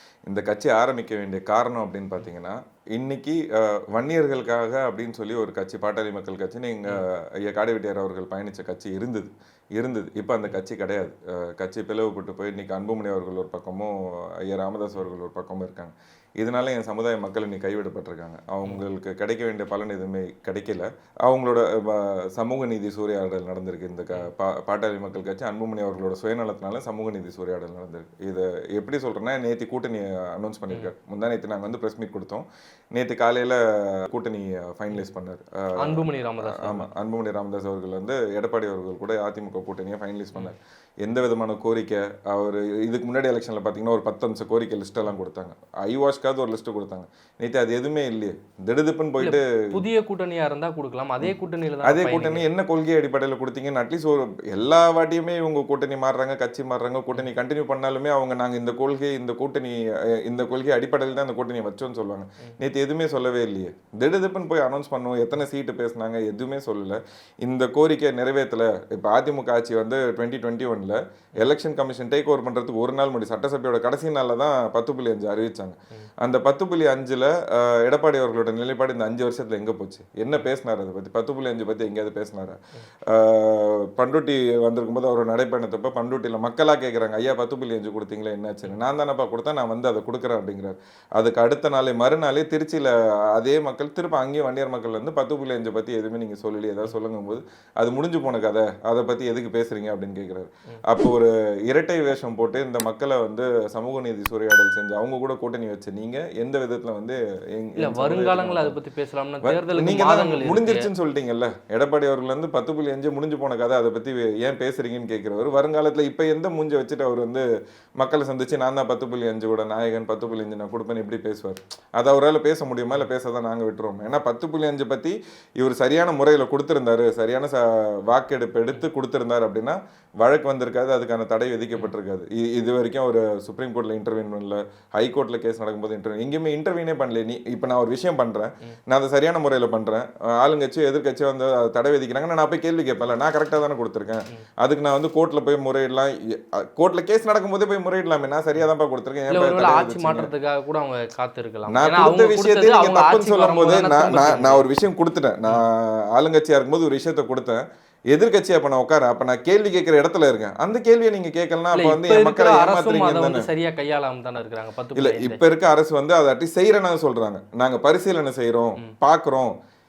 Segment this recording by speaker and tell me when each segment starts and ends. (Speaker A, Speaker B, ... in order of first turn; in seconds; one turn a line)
Speaker A: 0.2-49.5
Speaker B: 35.8-36.9
Speaker B: 49.2-52.4
Speaker A: 51.2-108.8
Speaker B: 107.8-110.9
Speaker A: 109.4-117.4
Speaker A: 118.0-150.3
Speaker B: 149.3-154.7
Speaker A: 151.7-163.5
Speaker B: 161.7-165.4
Speaker A: 164.9-169.5